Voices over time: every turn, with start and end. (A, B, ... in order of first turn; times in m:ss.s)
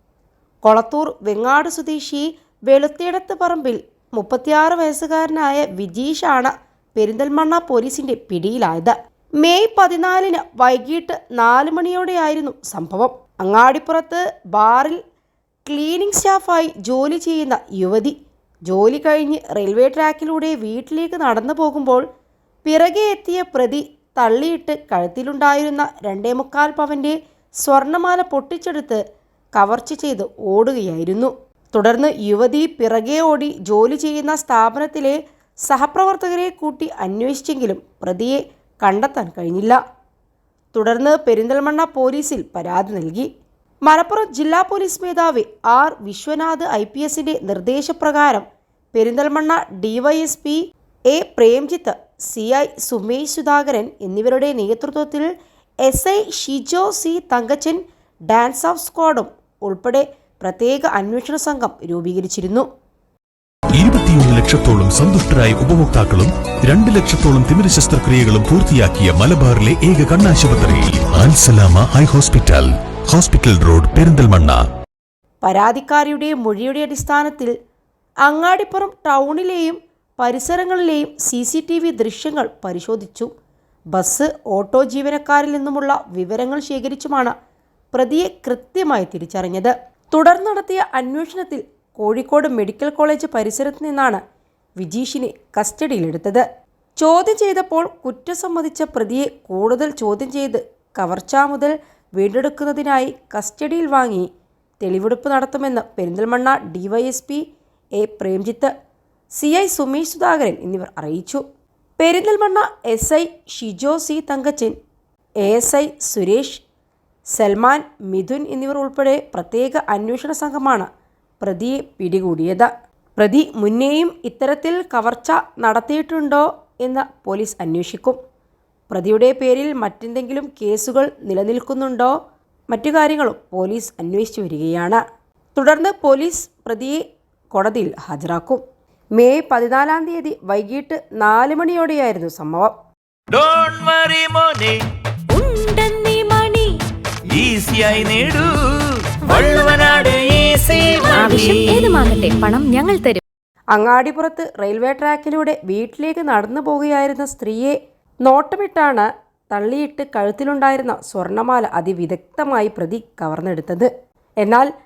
0:00.6-0:15.0 A
0:15.7-0:18.2 A
0:18.7-0:22.0 A
0:22.6-0:29.0 A
0:29.6-0:39.8 A
0:40.7-0:43.3 A
0:43.8-0:50.6 A
0:51.1-0:55.3 A
0:55.8-1:02.7 A
1:03.8-1:14.6 B
1:15.4-1:17.5 A
1:18.2-1:23.3 A
1:23.9-1:27.3 A
1:27.9-1:34.2 A
1:34.8-1:36.4 A
1:37.0-1:44.3 A
1:44.8-1:47.4 A
1:48.0-1:48.7 A
1:49.3-1:51.4 A
1:52.0-1:54.8 A
1:55.4-1:56.6 A
1:57.3-2:00.9 A
2:01.4-2:08.2 A
2:08.9-2:12.2 A
2:12.7-2:15.0 A
2:15.6-2:18.6 A
2:19.2-2:22.7 A
2:23.3-2:24.8 C
2:25.3-2:26.8 D
2:27.3-2:32.0 C
2:31.1-2:33.2 D
2:33.7-2:43.9 A
2:44.4-2:44.7 A